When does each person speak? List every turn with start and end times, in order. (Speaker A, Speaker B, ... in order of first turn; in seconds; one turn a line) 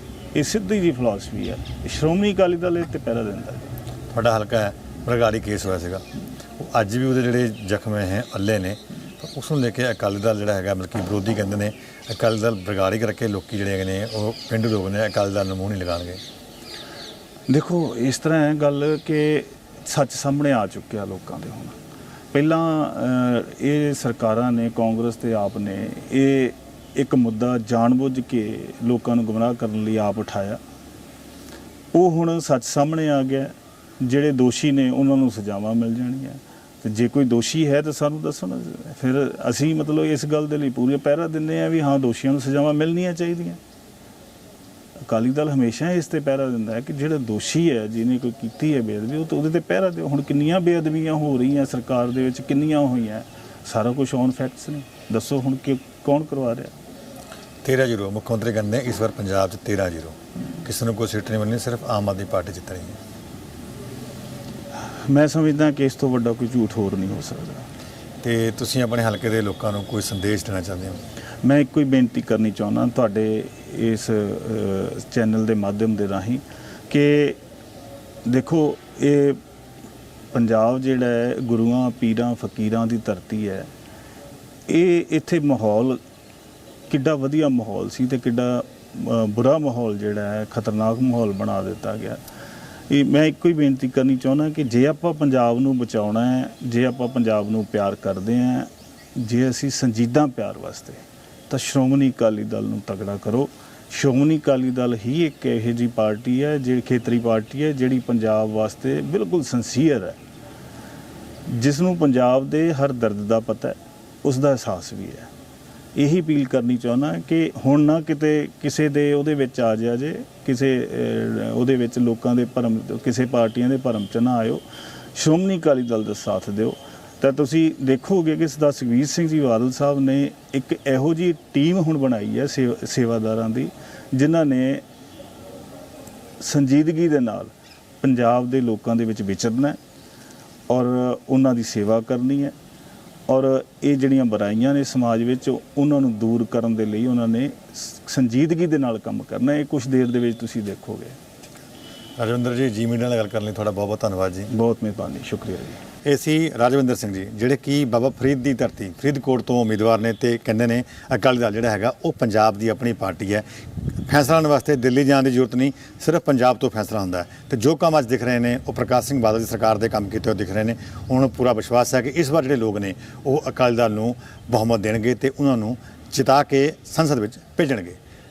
Speaker A: 0.3-3.8
Speaker B: 4.1-6.0
Speaker B: 6.6-16.2
Speaker A: 17.5-21.8
Speaker A: 22.3-30.6
Speaker A: 31.9-43.6
Speaker A: 45.0-56.7
Speaker B: 57.6-63.0
Speaker A: 64.8-67.7
Speaker B: 68.2-71.0
Speaker A: 71.4-77.4
Speaker A: 78.2-79.4
Speaker A: 80.3-83.7
Speaker A: 84.7-86.0
Speaker A: 86.9-92.2
Speaker A: 92.9-110.2
Speaker A: 111.5-115.3
Speaker A: 116.0-124.6
Speaker A: 125.1-134.8
Speaker A: 136.4-139.8
Speaker A: 140.7-142.6
Speaker A: 143.3-151.2
Speaker B: 152.2-154.5
Speaker A: 154.5-155.8
Speaker B: 156.0-178.0